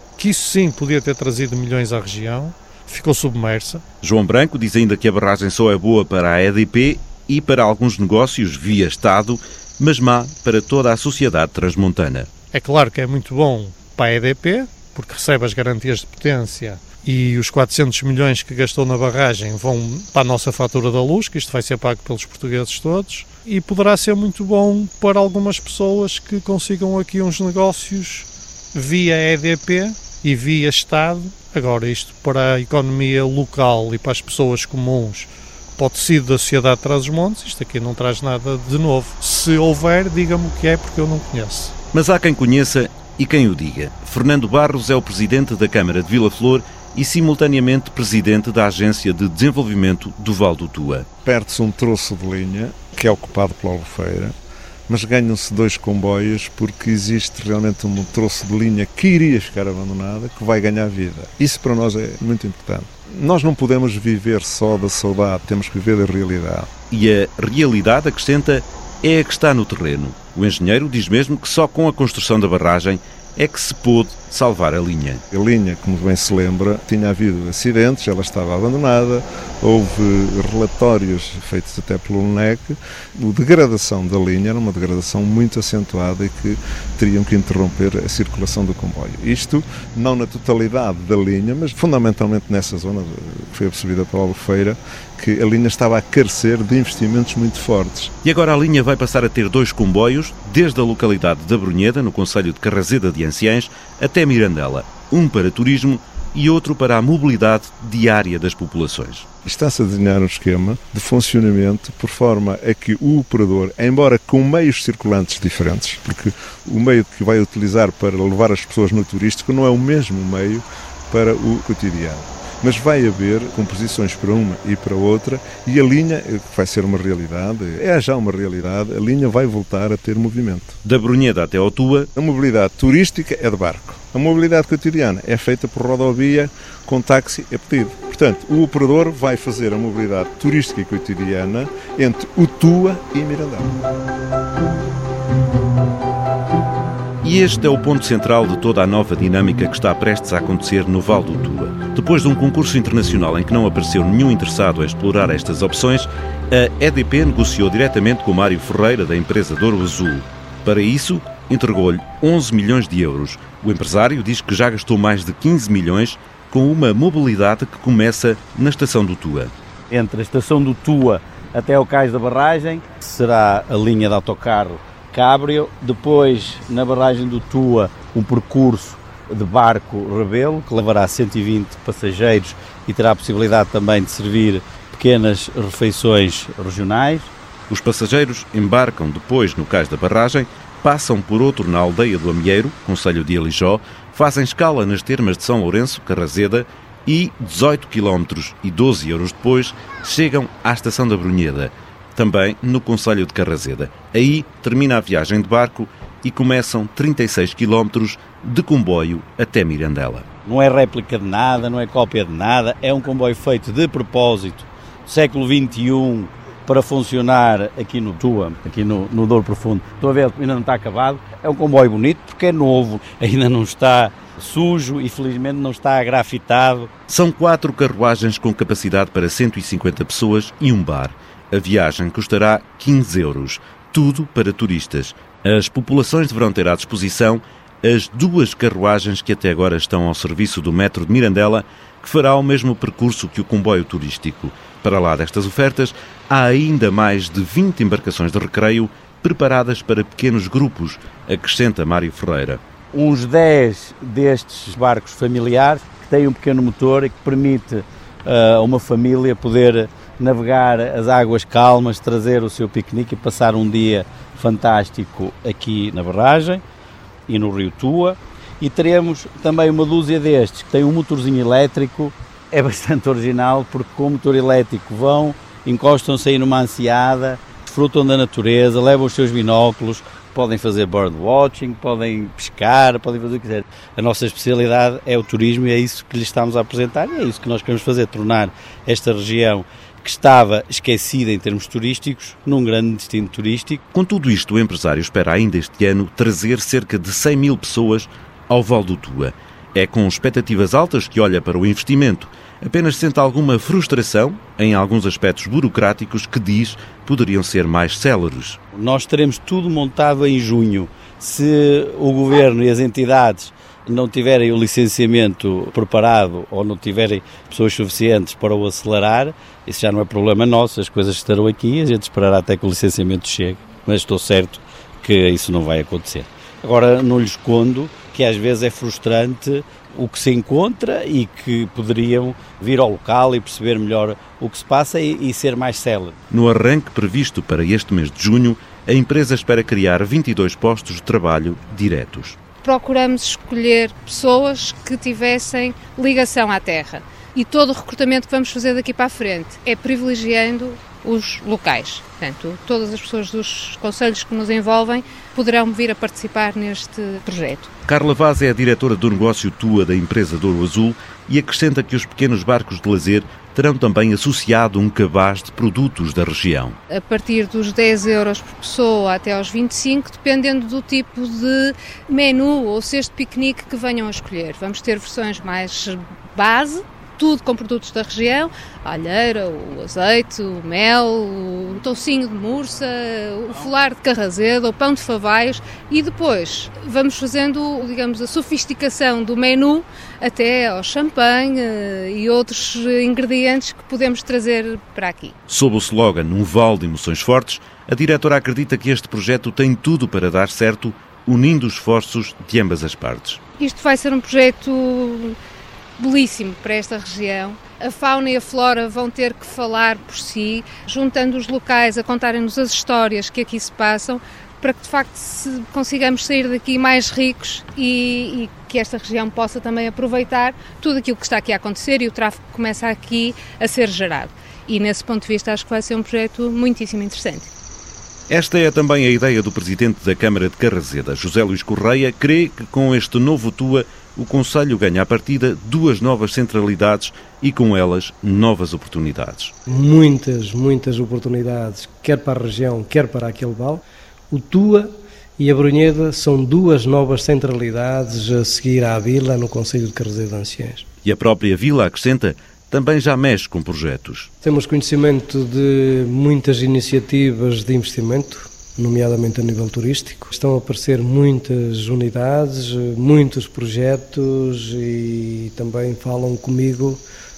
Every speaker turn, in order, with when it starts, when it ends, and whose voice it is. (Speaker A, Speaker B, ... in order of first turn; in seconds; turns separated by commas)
Speaker A: 0.2-3.8, Speaker B: 4.0-12.3, Speaker A: 12.5-41.8, Speaker B: 41.9-51.1, Speaker C: 51.2-54.4, Speaker C: 54.9-66.7, Speaker B: 66.9-75.2, Speaker C: 75.3-98.1, Speaker B: 98.2-109.3, Speaker C: 109.4-130.8, Speaker B: 130.8-132.1, Speaker C: 132.2-143.8, Speaker B: 147.2-169.5, Speaker D: 169.9-187.3, Speaker B: 187.7-210.3, Speaker D: 210.4-226.9, Speaker B: 227.1-252.6, Speaker D: 252.9-266.6, Speaker D: 267.3-293.8, Speaker B: 293.9-308.6, Speaker D: 308.7-336.2, Speaker B: 336.3-342.4, Speaker E: 342.6-357.7, Speaker B: 357.9-366.8, Speaker E: 366.9-395.4, Speaker B: 395.5-403.4, Speaker E: 403.6-405.4, Speaker E: 406.0-427.5, Speaker B: 428.3-439.5, Speaker F: 439.7-450.8, Speaker B: 451.0-454.3, Speaker F: 454.4-467.0